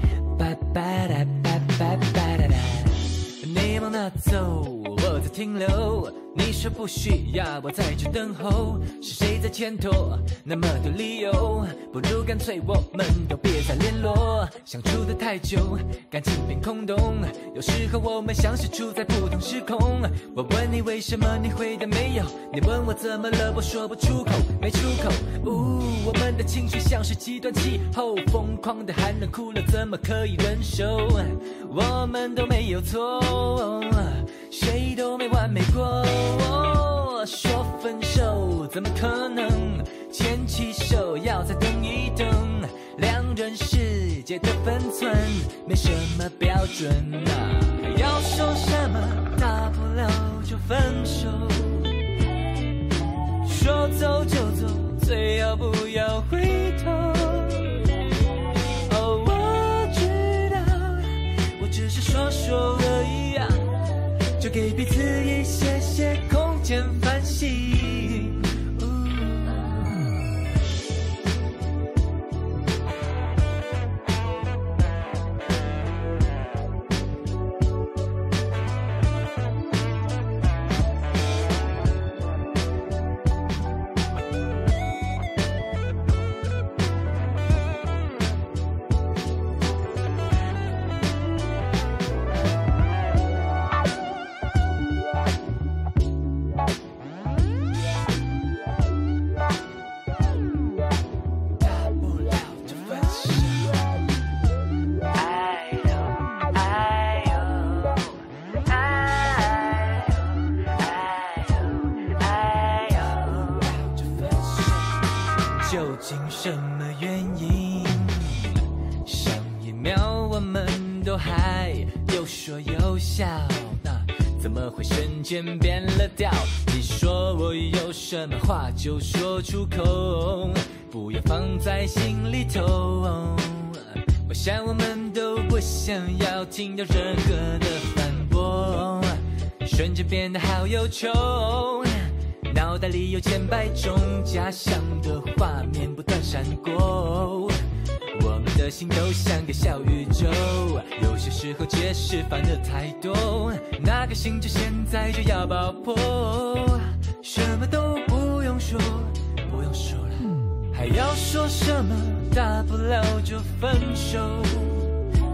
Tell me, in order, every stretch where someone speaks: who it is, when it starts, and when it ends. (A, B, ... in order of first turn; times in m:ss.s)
0:00.3-0:52.0 A
0:53.4-0:57.8 A
0:58.9-1:03.7 A
1:04.4-1:10.0 A
1:41.6-1:44.0 A
1:45.1-2:27.6 A
2:28.1-2:44.9 A